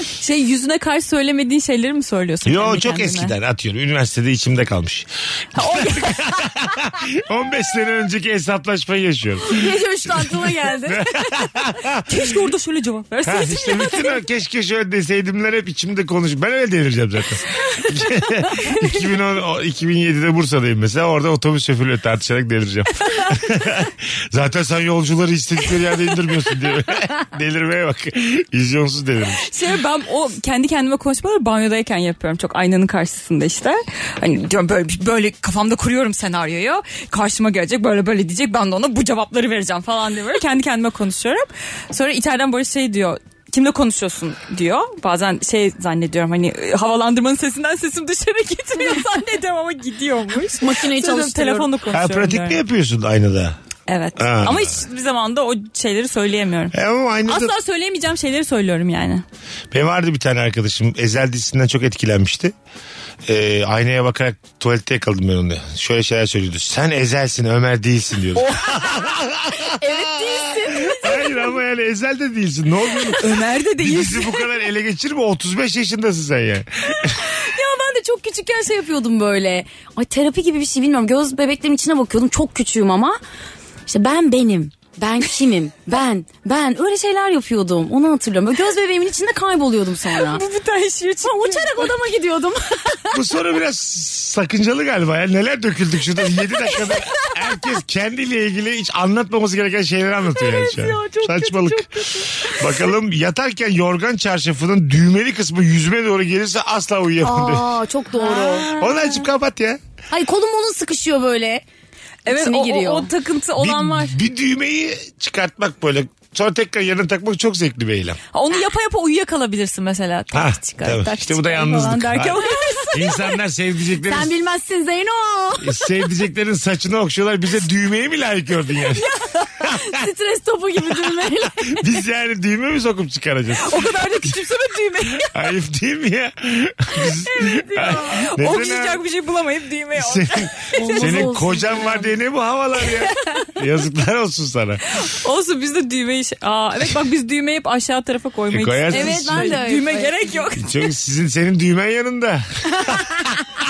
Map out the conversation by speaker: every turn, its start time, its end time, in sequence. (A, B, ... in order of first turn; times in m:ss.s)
0:00.2-0:03.4 A
0:02.4-0:12.0 B
0:05.6-0:06.4 A
0:09.5-0:11.1 C
0:12.1-0:14.2 A
0:13.2-0:29.5 B
0:29.5-0:52.6 A
0:48.8-0:49.1 C
0:50.6-0:51.7 C
0:51.9-0:53.6 B
0:53.9-0:56.8 A
0:54.2-0:54.8 B
0:56.7-0:57.5 B
0:57.3-0:59.2 A
0:59.7-1:02.5 B
1:03.3-1:17.2 B
1:09.6-1:11.6 C
1:13.2-1:14.4 A
1:17.2-1:23.2 C
1:23.9-1:30.4 C
1:30.1-1:32.0 A
1:31.2-1:33.2 C
1:33.1-1:47.8 B
1:40.5-1:42.2 A
1:47.2-1:48.8 C
1:48.2-1:49.2 A
1:48.7-1:49.8 B
1:50.1-1:51.6 C
1:52.3-1:54.2 A
1:52.3-1:53.1 C
1:53.6-1:58.2 B
1:58.3-2:03.2 A
2:00.3-2:02.4 B
2:02.5-2:02.9 C
2:02.9-2:04.3 B
2:04.1-2:05.8 C
2:05.6-2:09.1 B
2:09.6-2:11.8 C
2:11.6-2:13.8 B
2:13.6-2:15.3 A
2:15.3-2:19.0 B
2:17.6-2:18.1 C
2:17.8-2:21.4 A
2:20.0-2:25.1 B
2:20.8-2:22.1 C
2:25.0-2:30.8 A
2:28.5-2:29.6 B
2:28.9-2:30.4 C
2:30.6-2:33.4 B